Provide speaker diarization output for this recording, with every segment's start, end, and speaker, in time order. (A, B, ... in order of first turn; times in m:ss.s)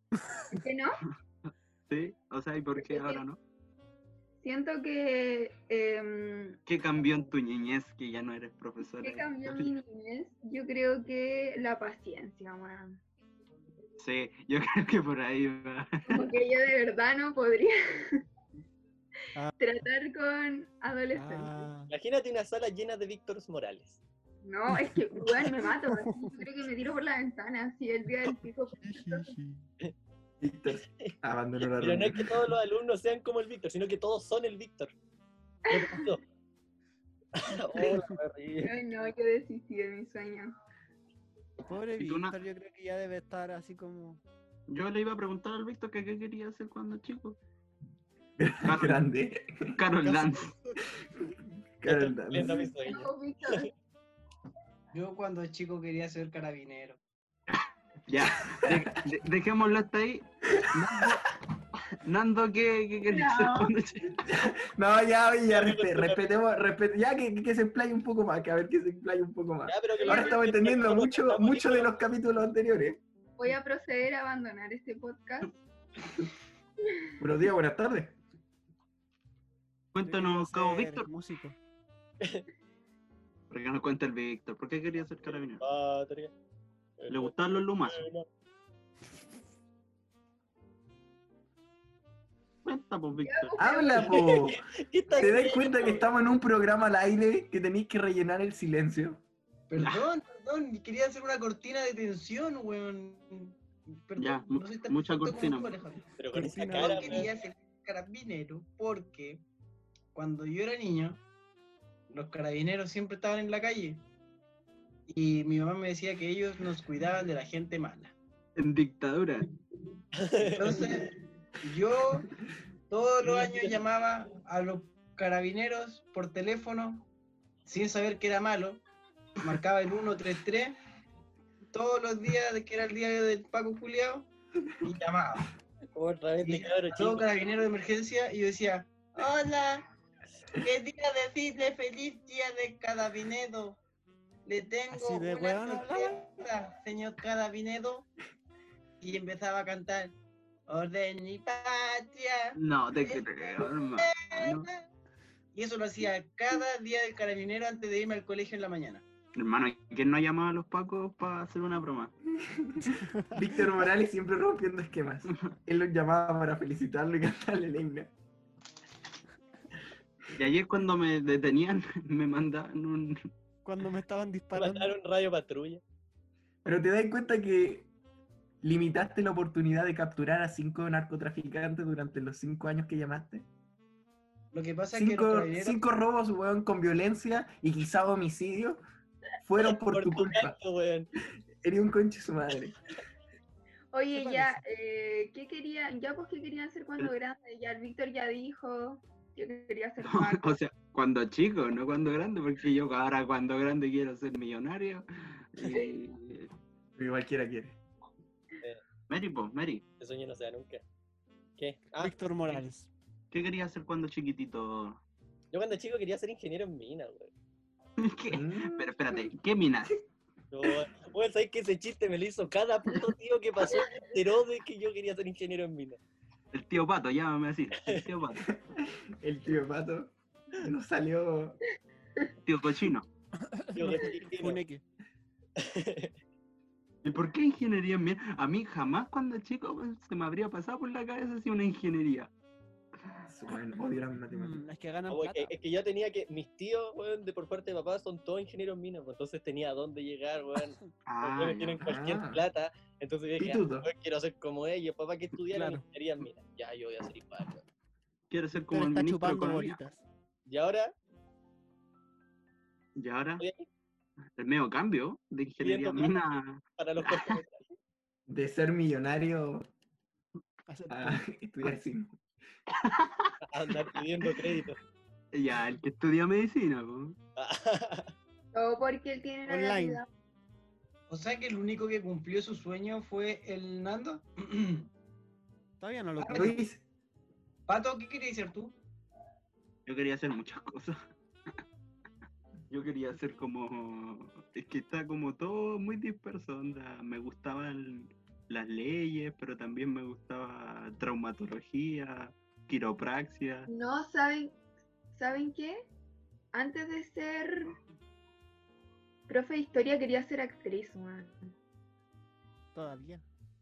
0:00.5-0:01.0 A
0:01.9-0:03.4 B
0:02.8-0:03.2 A
0:04.4-0:06.6 A
0:06.7-0:09.7 B
0:09.0-0:13.0 A
0:14.0-0:16.3 B
0:16.1-0:18.2 A
0:19.6-0:21.7 A
0:21.1-0:21.9 C
0:21.9-0:24.0 D
0:24.4-0:29.4 A
0:25.8-0:26.4 C
0:28.8-0:29.6 C
0:30.4-0:32.5 E
0:31.0-0:34.9 D
0:35.7-0:36.0 A
0:35.7-0:36.2 D
0:37.4-0:38.7 D
0:38.6-0:40.5 A
0:41.7-0:44.2 C
0:42.0-0:42.3 B
0:44.7-0:47.4 B
0:48.4-0:49.8 E
0:48.6-0:49.0 B
0:49.8-0:50.5 B
0:50.0-0:50.8 C
0:51.8-0:52.7 E
0:51.8-0:53.7 D
0:52.8-0:53.7 A
0:54.9-0:57.0 F
0:58.1-1:01.2 B
0:58.6-0:59.0 E
1:00.5-1:01.2 E
1:02.0-1:04.2 B
1:03.1-1:03.7 A
1:04.2-1:13.0 E
1:05.5-1:06.4 D
1:09.7-1:12.0 D
1:10.0-1:10.4 A
1:13.4-1:15.5 A
1:17.2-1:18.2 E
1:19.9-1:21.1 B
1:20.0-1:21.6 C
1:23.5-1:25.6 B
1:25.3-1:26.3 D
1:27.0-1:28.3 D
1:27.1-1:28.0 B
1:32.6-1:33.6 B
1:33.2-1:34.4 A
1:33.6-1:34.6 E
1:34.1-1:36.0 D
1:35.1-1:39.2 E
1:39.7-1:49.4 F
1:39.8-1:40.1 B
1:44.2-1:45.8 B
1:46.2-1:47.3 D
1:46.3-1:47.3 C
1:50.1-1:51.2 F
1:52.1-1:54.0 F
1:55.1-1:58.1 F
1:58.6-1:59.5 B
2:00.2-2:01.0 D
2:00.5-2:02.3 F
2:02.9-2:07.1 F
2:03.2-2:03.8 D
2:07.6-2:08.8 F
2:09.4-2:10.8 F
2:11.7-2:14.3 F
2:14.8-2:15.5 F
2:15.9-2:17.3 D
2:16.4-2:19.9 F
2:20.5-2:23.8 F
2:24.4-2:28.1 F
2:24.9-2:26.2 C
2:29.0-2:30.1 F
2:30.7-2:34.8 F
2:32.6-2:34.7 B
2:35.5-2:39.0 F
2:39.3-2:42.1 B
2:42.4-2:48.1 E
2:43.0-2:43.4 C
2:50.3-2:53.3 B
2:53.6-2:54.9 C
2:54.5-2:55.8 D
2:56.6-2:57.9 E
2:58.6-3:03.4 E
3:04.5-3:05.8 F
3:04.9-3:08.8 E
3:09.4-3:10.6 E
3:09.8-3:11.1 D
3:11.6-3:12.8 E
3:13.9-3:20.6 A
3:14.1-3:14.6 C
3:20.0-3:26.5 B
3:27.0-3:27.8 E
3:29.1-3:29.8 B
3:30.0-3:30.8 D
3:31.6-3:32.6 D
3:32.0-3:32.9 C
3:33.3-3:35.0 B
3:35.5-3:37.3 D
3:38.0-3:40.0 B
3:38.3-3:38.9 E
3:40.5-3:46.0 D
3:46.5-3:48.5 B
3:48.5-3:51.6 E
3:52.4-3:53.1 B
3:53.5-3:54.8 C
3:53.7-3:54.6 D
3:55.6-3:56.1 D
3:57.0-4:02.3 B
4:03.3-4:04.6 E
4:04.3-4:05.5 C
4:05.1-4:17.6 D
4:11.1-4:11.8 B
4:11.8-4:12.4 E
4:13.4-4:13.9 E
4:15.5-4:15.8 C
4:18.3-4:19.8 B
4:18.6-4:20.0 C
4:20.5-4:20.9 D
4:23.0-4:23.4 B
4:23.4-4:23.7 D
4:24.4-4:27.4 B
4:25.6-4:26.2 D
4:26.8-4:27.7 D
4:28.3-4:29.7 E
4:30.7-4:31.2 C
4:30.9-4:32.1 E
4:32.7-4:33.4 B
4:33.5-4:34.8 D
4:35.3-4:37.2 B
4:37.4-4:38.1 D
4:38.5-4:40.1 A
4:39.5-4:40.0 C
4:41.1-4:44.9 F
4:45.8-4:46.6 C
4:46.2-4:46.5 F
4:46.3-4:46.8 E
4:47.7-4:48.7 F
4:49.8-4:51.0 B
4:52.7-5:03.7 B
5:03.7-5:04.5 A
5:05.1-5:05.9 A
5:06.5-5:07.7 A
5:09.3-5:11.5 A
5:12.7-5:13.2 C